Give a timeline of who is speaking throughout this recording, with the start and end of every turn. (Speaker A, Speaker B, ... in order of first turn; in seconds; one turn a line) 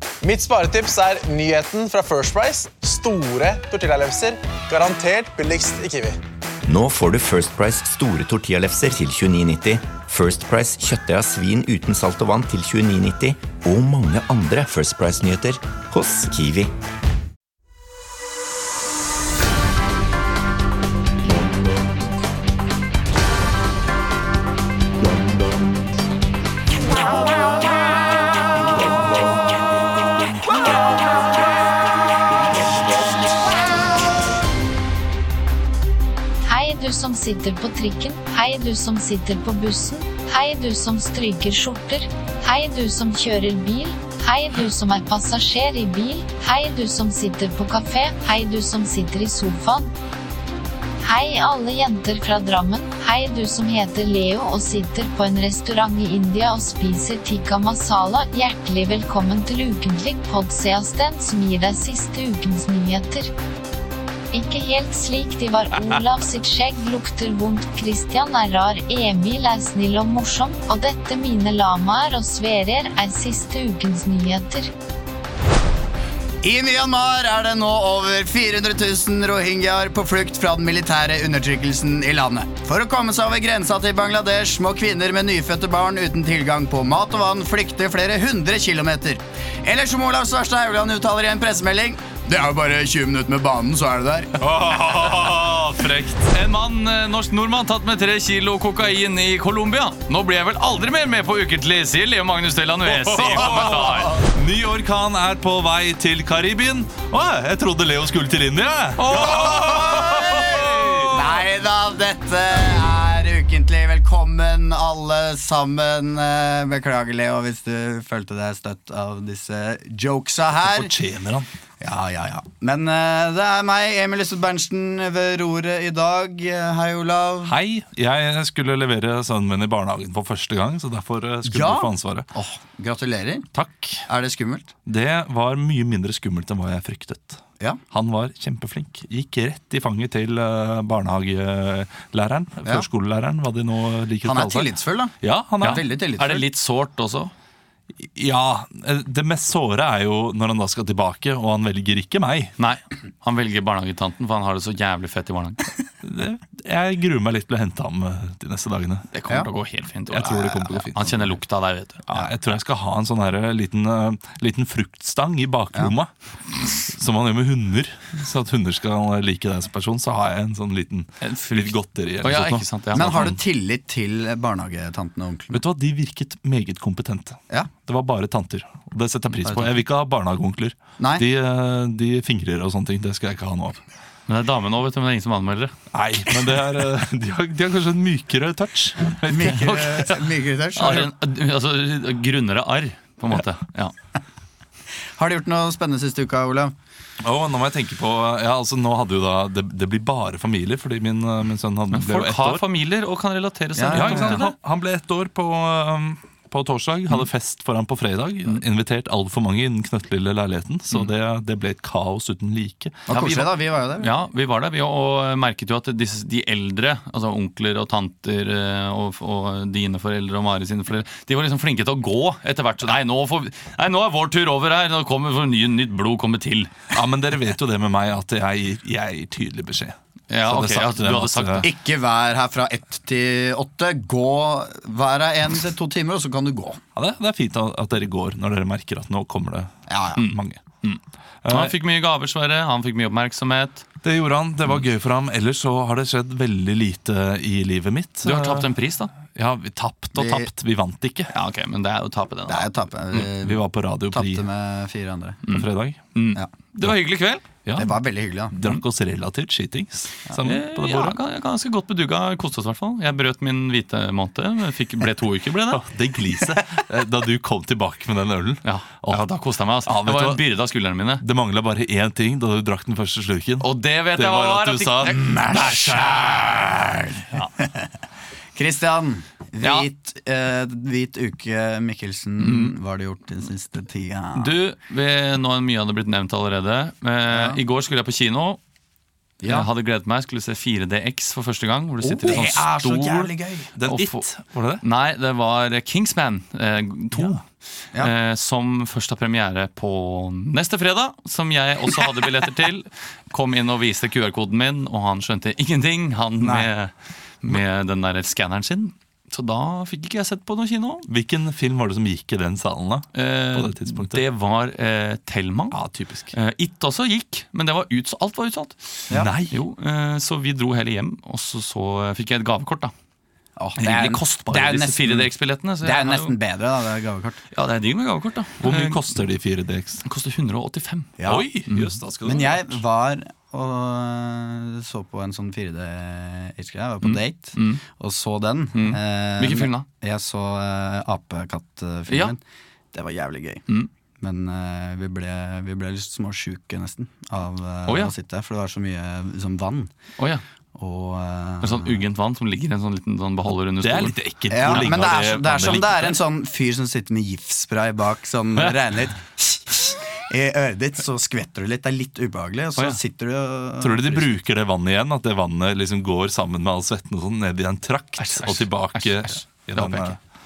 Speaker A: 0.2-6.2
Speaker B: 6.7-16.7
Speaker C: 36.4-49.9
Speaker C: 51.0-63.3
Speaker C: 64.3-74.7
Speaker D: 76.4-94.4
Speaker E: 94.4-96.3
Speaker F: 96.3-104.2
Speaker E: 102.9-111.3
Speaker D: 103.6-104.1
Speaker F: 109.0-109.6
Speaker D: 109.0-120.9
Speaker E: 120.6-121.5
Speaker D: 121.8-127.5
Speaker E: 127.5-132.3
Speaker D: 131.4-133.5
Speaker F: 133.6-134.0
Speaker D: 134.1-134.7
Speaker E: 134.8-145.8
Speaker D: 144.2-146.4
Speaker F: 145.6-147.3
Speaker E: 148.0-152.5
Speaker F: 152.6-155.6
Speaker E: 156.0-159.1
Speaker F: 159.1-162.0
Speaker E: 160.1-161.3
Speaker E: 162.1-166.1
Speaker E: 166.7-173.3
Speaker F: 171.2-173.3
Speaker D: 172.9-175.6
Speaker E: 175.5-183.8
Speaker F: 179.2-179.6
Speaker D: 181.0-181.2
Speaker F: 184.3-185.7
Speaker E: 185.9-189.1
Speaker F: 189.2-193.9
Speaker D: 189.3-191.1
Speaker D: 195.2-196.7
Speaker E: 197.2-202.7
Speaker F: 201.9-204.5
Speaker D: 203.7-204.4
Speaker E: 203.9-213.0
Speaker D: 213.1-214.1
Speaker F: 213.1-213.5
Speaker F: 214.0-226.7
Speaker E: 226.9-231.6
Speaker F: 230.3-231.7
Speaker D: 231.6-236.8
Speaker E: 236.9-240.6
Speaker D: 239.9-240.3
Speaker F: 240.2-243.8
Speaker E: 241.4-241.7
Speaker E: 244.0-248.7
Speaker F: 248.2-249.1
Speaker E: 249.2-251.3
Speaker D: 250.1-250.5
Speaker F: 251.3-253.2
Speaker D: 252.5-255.4
Speaker E: 253.2-254.4
Speaker F: 255.4-257.9
Speaker E: 255.5-256.0
Speaker D: 257.8-258.5
Speaker E: 258.5-261.2
Speaker F: 260.4-265.8
Speaker E: 265.7-269.2
Speaker F: 268.6-271.2
Speaker E: 269.9-270.4
Speaker E: 271.2-276.2
Speaker F: 273.6-275.7
Speaker D: 275.0-277.9
Speaker D: 278.5-284.5
Speaker F: 279.6-279.9
Speaker F: 282.4-282.7
Speaker F: 284.3-288.6
Speaker D: 287.3-287.6
Speaker D: 289.4-289.7
Speaker F: 289.4-293.3
Speaker E: 292.2-292.5
Speaker D: 292.2-293.7
Speaker E: 293.8-294.8
Speaker F: 293.9-294.2
Speaker F: 294.8-297.4
Speaker F: 298.0-311.1
Speaker E: 311.1-314.2
Speaker F: 313.1-315.8
Speaker E: 315.7-316.3
Speaker F: 316.3-318.8
Speaker E: 319.1-319.6
Speaker F: 319.5-322.9
Speaker D: 323.6-325.3
Speaker F: 323.8-326.3
Speaker E: 324.0-324.8
Speaker D: 325.8-327.4
Speaker F: 327.5-329.0
Speaker E: 328.6-330.0
Speaker F: 330.0-331.9
Speaker D: 331.2-331.5
Speaker E: 331.2-332.8
Speaker D: 332.2-342.4
Speaker F: 337.0-337.8
Speaker F: 338.7-339.9
Speaker F: 342.1-342.3
Speaker D: 342.9-343.6
Speaker D: 344.2-349.9
Speaker F: 347.9-348.1
Speaker F: 350.2-350.4
Speaker D: 350.8-352.0
Speaker F: 351.6-355.0
Speaker E: 353.8-356.1
Speaker D: 354.5-364.3
Speaker E: 363.8-370.2
Speaker F: 368.2-370.2